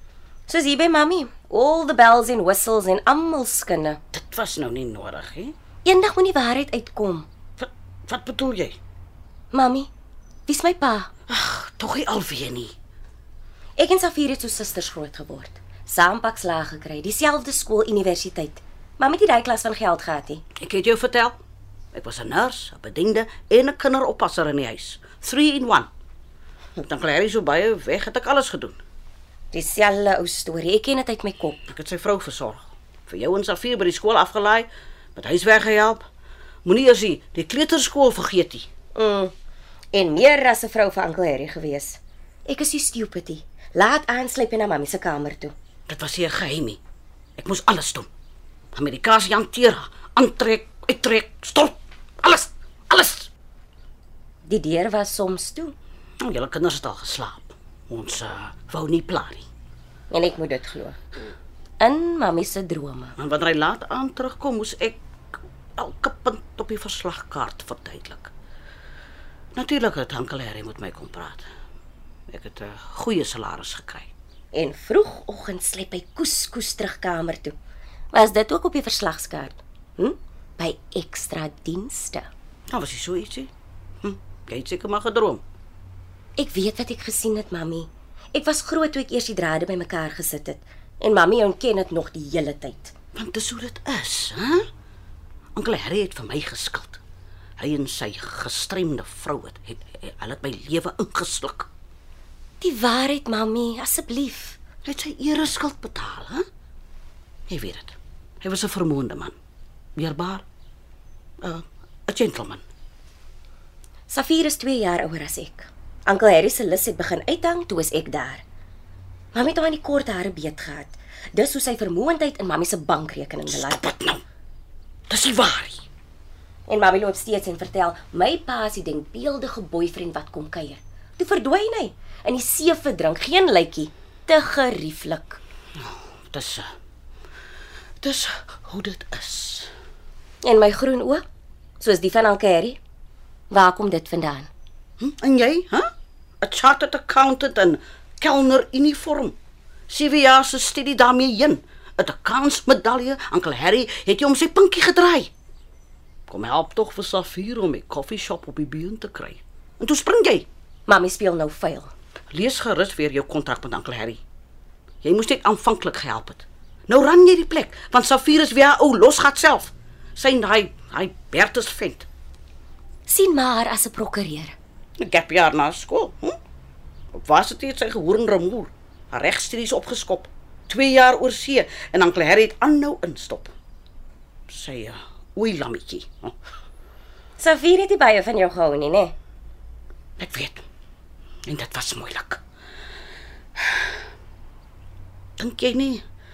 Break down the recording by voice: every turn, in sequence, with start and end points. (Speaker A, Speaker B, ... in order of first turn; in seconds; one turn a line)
Speaker A: 0.5-4.0
Speaker B: 4.1-5.5
Speaker A: 5.8-7.3
Speaker B: 7.6-8.8
Speaker A: 9.5-9.9
Speaker A: 10.5-11.1
Speaker B: 11.3-12.7
Speaker A: 13.8-20.4
Speaker B: 20.6-21.4
Speaker B: 21.9-25.9
Speaker B: 26.8-28.8
Speaker A: 29.5-31.7
Speaker B: 31.7-36.0
Speaker B: 36.6-38.7
Speaker A: 38.9-39.3
Speaker A: 39.9-45.5
Speaker B: 45.9-46.8
Speaker B: 47.4-48.1
Speaker B: 48.7-53.3
Speaker A: 54.4-55.7
Speaker B: 56.2-59.5
Speaker A: 60.1-61.0
Speaker A: 61.8-63.1
Speaker B: 63.2-65.0
Speaker B: 65.8-68.3
Speaker B: 69.5-71.5
Speaker B: 72.3-74.1
Speaker A: 74.5-77.5
Speaker A: 78.1-82.3
Speaker B: 82.7-83.5
Speaker B: 84.0-85.4
Speaker A: 86.4-92.9
Speaker B: 93.1-94.7
Speaker B: 95.5-97.0
Speaker B: 97.6-101.7
Speaker A: 102.6-104.6
Speaker B: 104.8-106.5
Speaker B: 107.5-109.3
Speaker B: 110.0-110.4
Speaker B: 111.4-112.6
Speaker A: 114.1-118.4
Speaker A: 119.3-123.9
Speaker B: 123.5-124.2
Speaker B: 125.1-125.8
Speaker A: 126.7-135.4
Speaker B: 135.8-136.7
Speaker B: 138.0-139.7
Speaker A: 140.4-141.2
Speaker A: 141.8-142.8
Speaker A: 143.5-144.5
Speaker B: 145.0-149.3
Speaker B: 149.9-155.3
Speaker B: 156.3-160.5
Speaker A: 160.9-161.9
Speaker B: 162.3-164.2
Speaker B: 165.0-172.1
Speaker A: 173.1-174.5
Speaker B: 175.0-176.4
Speaker B: 177.1-183.5
Speaker B: 184.5-186.3
Speaker A: 187.4-189.1
Speaker B: 190.2-190.6
Speaker B: 191.4-192.4
Speaker B: 193.6-193.9
Speaker B: 195.4-196.0